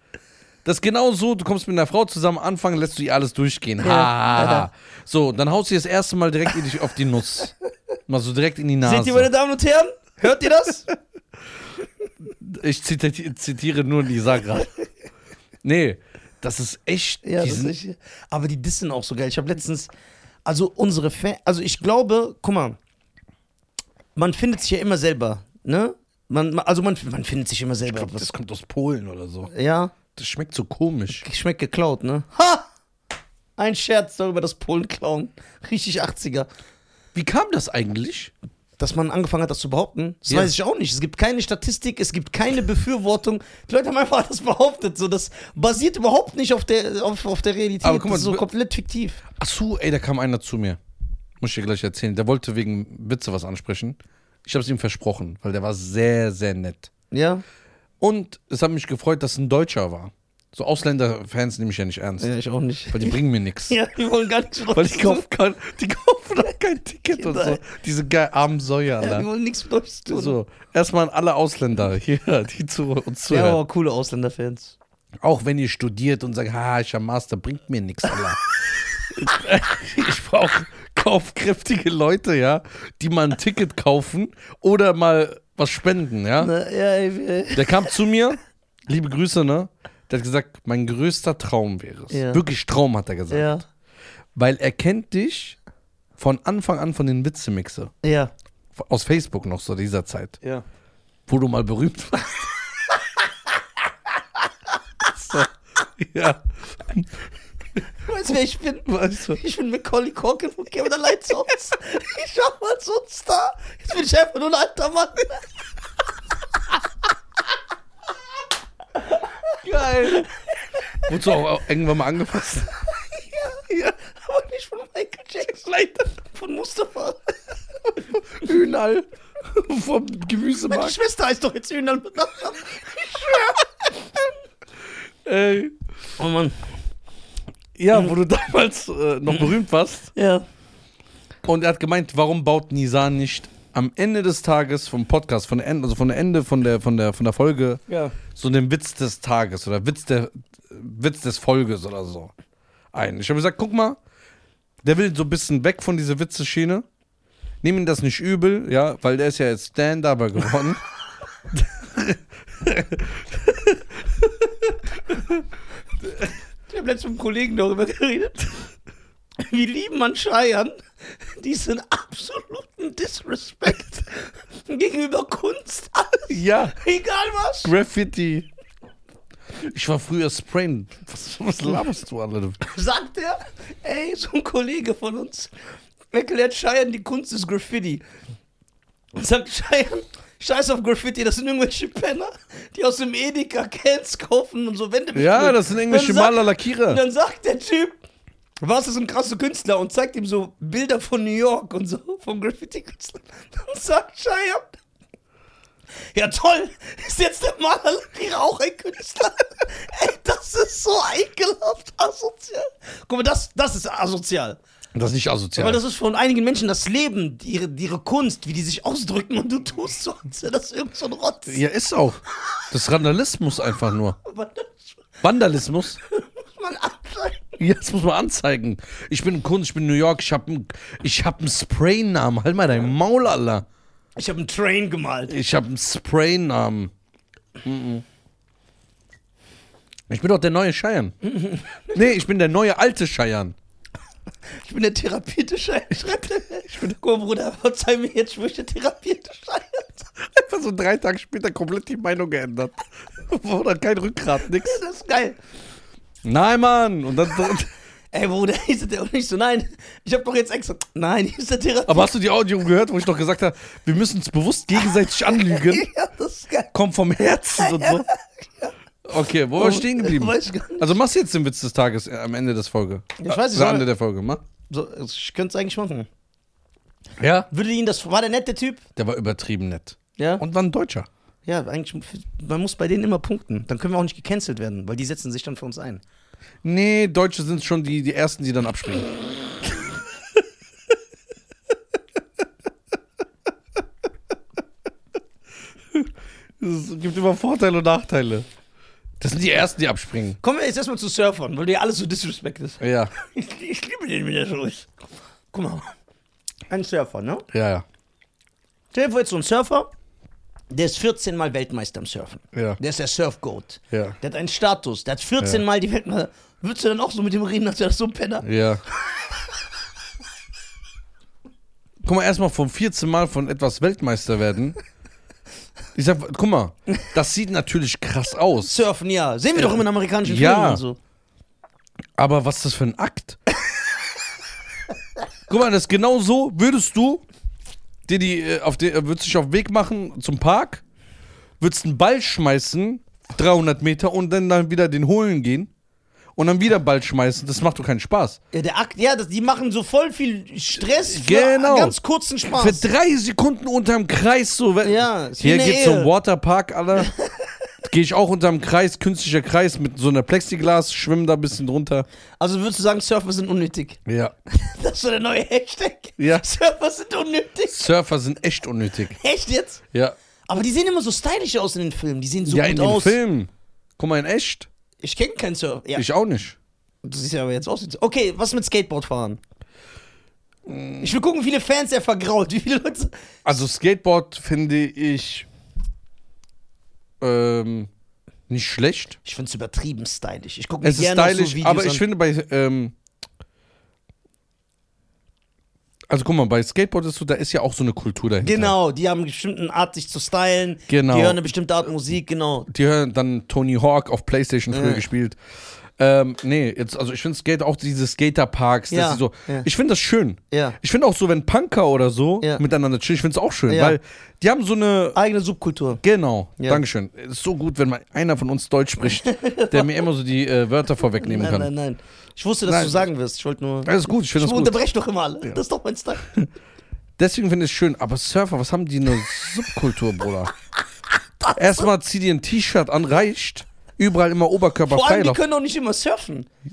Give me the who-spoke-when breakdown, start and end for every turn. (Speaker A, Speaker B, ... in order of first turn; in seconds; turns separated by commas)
Speaker A: 0.6-7.5, Speaker B: 3.8-4.7, Speaker A: 8.1-9.3, Speaker B: 8.8-10.9, Speaker A: 12.4-14.7, Speaker A: 15.6-17.7, Speaker B: 17.2-19.9, Speaker B: 20.4-22.8, Speaker B: 24.1-28.3, Speaker A: 27.9-29.5, Speaker B: 29.5-29.9, Speaker A: 30.1-31.2, Speaker B: 31.2-32.6, Speaker B: 33.6-36.5, Speaker A: 37.1-38.3, Speaker B: 38.8-49.2, Speaker A: 40.3-40.5, Speaker A: 47.8-48.5, Speaker A: 49.4-50.8, Speaker A: 51.4-56.9, Speaker B: 57.1-57.4, Speaker A: 58.0-62.3, Speaker B: 62.2-63.2, Speaker A: 62.9-63.8, Speaker B: 63.7-65.2, Speaker A: 64.7-69.3, Speaker B: 67.1-67.6, Speaker B: 69.0-70.3, Speaker A: 70.1-73.6, Speaker B: 73.3-74.7, Speaker A: 75.2-78.4, Speaker A: 79.0-86.5, Speaker B: 86.4-87.9, Speaker A: 87.5-93.6, Speaker B: 92.1-92.4, Speaker B: 93.3-93.6, Speaker A: 94.3-95.6, Speaker A: 96.2-97.9, Speaker B: 98.0-98.3, Speaker A: 98.7-100.4, Speaker A: 101.3-102.5, Speaker A: 105.1-105.5, Speaker A: 106.0-107.1, Speaker B: 108.0-115.5, Speaker A: 108.9-109.4, Speaker A: 119.6-120.3, Speaker A: 121.0-122.8, Speaker B: 123.3-127.3, Speaker A: 128.3-131.0, Speaker B: 130.7-133.9, Speaker A: 135.2-135.7, Speaker B: 136.2-136.6, Speaker A: 137.8-140.1, Speaker B: 140.1-140.4, Speaker A: 141.4-152.3, Speaker B: 147.9-148.1, Speaker A: 152.9-154.0, Speaker A: 154.8-156.8, Speaker A: 157.6-160.8, Speaker A: 161.5-165.4, Speaker B: 166.7-168.6, Speaker B: 169.4-177.7, Speaker A: 176.3-176.8, Speaker A: 177.6-178.5, Speaker A: 179.6-182.7, Speaker B: 182.7-185.5, Speaker B: 186.1-188.0, Speaker B: 189.1-198.0, Speaker A: 195.1-197.0, Speaker B: 198.6-204.8, Speaker B: 206.1-214.6, Speaker A: 214.9-215.8, Speaker B: 215.6-221.6, Speaker A: 221.5-224.2, Speaker B: 224.2-225.0, Speaker A: 225.2-226.0, Speaker B: 226.2-227.6, Speaker A: 227.6-233.6, Speaker B: 234.2-235.3, Speaker A: 235.3-236.9, Speaker A: 237.6-238.0, Speaker A: 240.1-241.3, Speaker A: 241.9-243.6, Speaker B: 244.6-250.1, Speaker A: 250.3-254.8, Speaker B: 254.6-255.4, Speaker A: 256.2-257.7, Speaker B: 258.1-262.1, Speaker A: 261.9-265.9, Speaker B: 265.1-266.7, Speaker A: 266.7-268.1, Speaker B: 267.6-268.7, Speaker A: 269.0-274.4, Speaker B: 269.5-270.9, Speaker B: 273.2-273.9, Speaker B: 274.7-276.1, Speaker A: 277.2-277.5, Speaker B: 277.5-278.8, Speaker A: 278.9-281.1, Speaker B: 280.2-280.4, Speaker B: 281.4-286.0, Speaker A: 286.6-289.1, Speaker A: 295.9-298.5, Speaker A: 299.2-300.4, Speaker B: 300.4-304.9, Speaker A: 302.8-303.1, Speaker B: 305.5-305.9, Speaker B: 306.7-307.4, Speaker A: 307.5-307.8, Speaker B: 308.9-309.9, Speaker B: 310.7-318.4, Speaker A: 312.5-312.8, Speaker A: 313.9-314.2, Speaker A: 318.4-318.8, Speaker A: 322.0-324.8, Speaker A: 325.9-328.8, Speaker B: 328.6-331.0, Speaker A: 330.2-330.8, Speaker A: 332.2-333.4, Speaker A: 335.5-337.2, Speaker A: 338.1-340.8, Speaker A: 341.6-345.7, Speaker A: 346.4-348.4, Speaker B: 348.5-352.9, Speaker A: 350.9-352.0, Speaker A: 352.5-357.1, Speaker B: 354.8-356.1, Speaker A: 357.8-362.1, Speaker B: 362.4-364.0, Speaker A: 364.1-364.3, Speaker B: 364.5-367.8, Speaker A: 366.2-366.4, Speaker A: 367.7-369.2, Speaker B: 369.1-369.8, Speaker B: 370.5-373.2, Speaker A: 372.5-374.7, Speaker B: 375.0-376.0, Speaker A: 375.9-376.6, Speaker B: 377.0-379.4, Speaker A: 380.6-381.1, Speaker B: 381.0-383.2, Speaker A: 383.4-385.5, Speaker A: 387.2-387.9, Speaker A: 388.5-389.2, Speaker B: 389.2-392.0, Speaker A: 390.8-392.9, Speaker A: 396.1-398.7, Speaker B: 398.4-402.7, Speaker A: 400.9-401.4, Speaker A: 402.7-405.4, Speaker B: 404.7-405.0, Speaker A: 406.0-415.2, Speaker B: 408.9-409.7, Speaker B: 410.5-410.8, Speaker B: 413.7-414.0, Speaker B: 415.1-416.0, Speaker A: 416.0-421.7, Speaker B: 416.6-416.8, Speaker B: 419.2-419.9, Speaker B: 421.2-426.3, Speaker A: 422.6-423.1, Speaker A: 423.8-424.7, Speaker A: 427.2-430.5, Speaker B: 431.4-431.9, Speaker A: 431.6-435.4, Speaker B: 434.9-436.5